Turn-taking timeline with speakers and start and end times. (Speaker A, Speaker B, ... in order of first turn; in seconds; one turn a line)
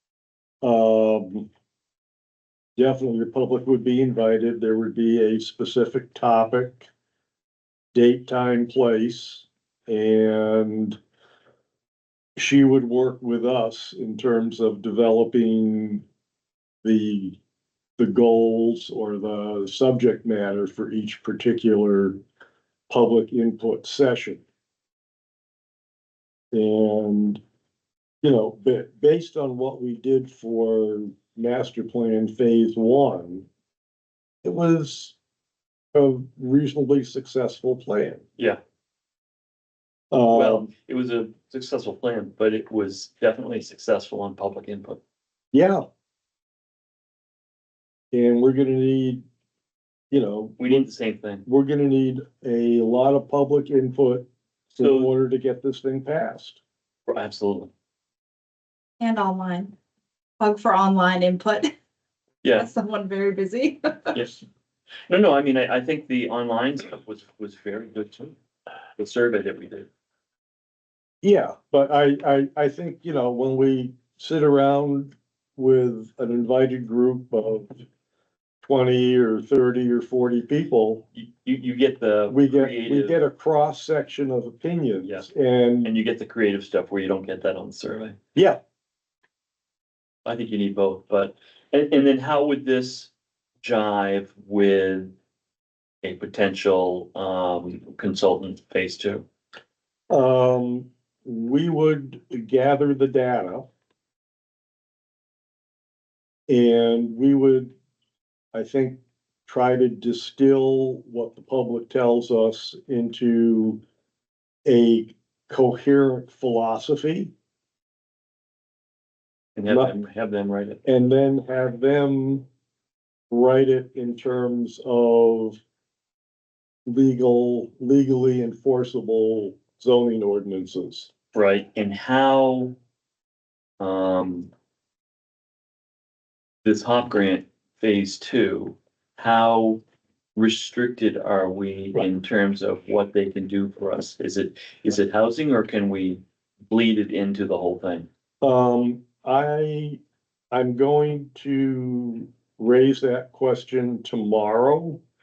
Speaker A: 0.6-1.5
Speaker A: 2.8-6.9
Speaker A: 7.9-11.0
Speaker A: 12.4-16.0
Speaker A: 16.8-17.4
Speaker A: 18.0-22.2
Speaker A: 22.9-24.4
Speaker A: 26.5-27.4
Speaker A: 28.2-33.5
Speaker A: 34.4-35.1
Speaker A: 35.9-38.2
Speaker A: 40.1-40.7
Speaker B: 40.3-45.0
Speaker A: 45.5-45.8
Speaker A: 48.1-49.2
Speaker A: 50.1-50.9
Speaker B: 50.6-51.4
Speaker A: 51.4-56.6
Speaker B: 54.8-55.1
Speaker B: 57.1-57.7
Speaker C: 59.0-59.7
Speaker C: 60.4-61.7
Speaker B: 62.4-62.7
Speaker C: 62.5-64.1
Speaker B: 64.1-64.4
Speaker B: 65.1-68.3
Speaker B: 69.0-69.9
Speaker A: 71.2-77.8
Speaker A: 78.6-81.0
Speaker B: 81.1-83.1
Speaker A: 82.3-85.9
Speaker B: 85.8-88.2
Speaker B: 90.2-93.1
Speaker B: 93.6-95.1
Speaker B: 96.0-99.2
Speaker A: 100.1-103.7
Speaker A: 106.5-107.7
Speaker A: 108.5-113.8
Speaker A: 114.6-117.3
Speaker B: 119.5-120.8
Speaker A: 119.7-119.9
Speaker A: 120.8-122.4
Speaker A: 123.3-125.6
Speaker A: 126.8-131.1
Speaker B: 131.3-132.8
Speaker B: 133.8-134.5
Speaker B: 136.6-139.8
Speaker B: 140.3-148.1
Speaker A: 148.4-150.0
Speaker A: 150.5-155.0